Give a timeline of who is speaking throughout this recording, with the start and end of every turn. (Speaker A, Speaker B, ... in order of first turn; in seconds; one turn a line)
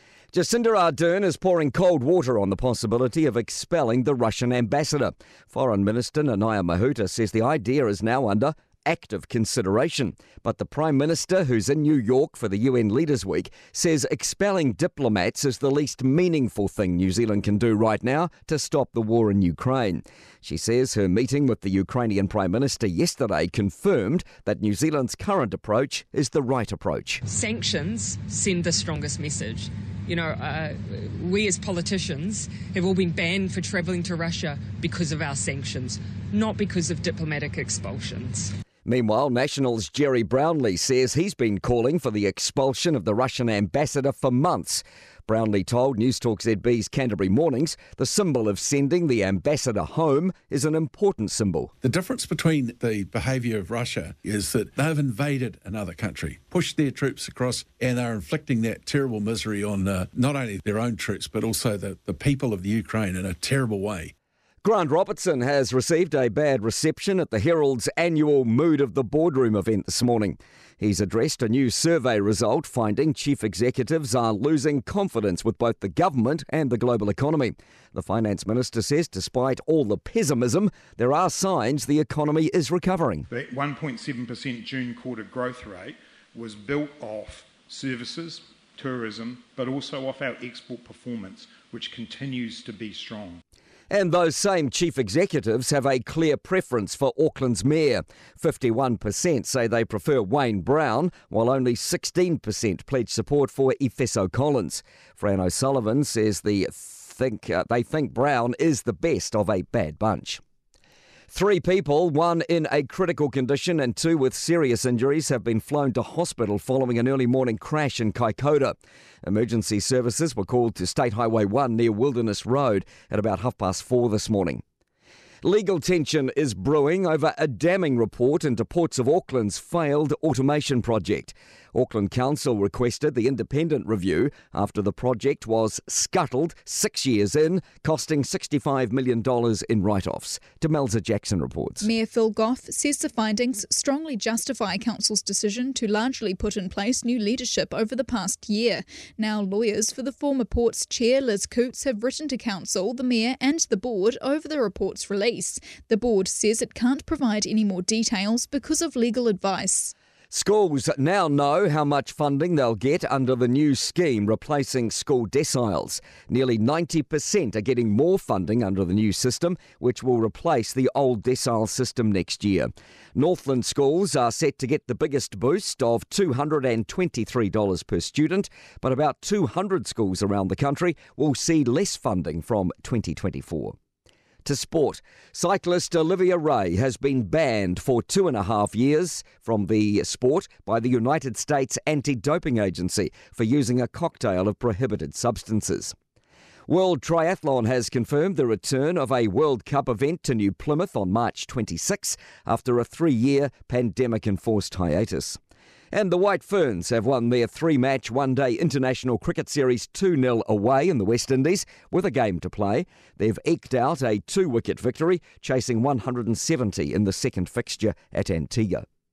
Speaker A: 0.3-27.2
Speaker B: 27.3-38.5
Speaker A: 38.9-51.7
Speaker C: 51.8-64.1
Speaker A: 64.6-83.3
Speaker D: 83.3-93.4
Speaker A: 93.9-110.4
Speaker A: 111.3-124.6
Speaker A: 125.4-141.9
Speaker E: 141.8-159.9
Speaker A: 160.3-183.8
Speaker A: 184.4-195.9
Speaker A: 196.7-205.4
Speaker A: 205.9-218.9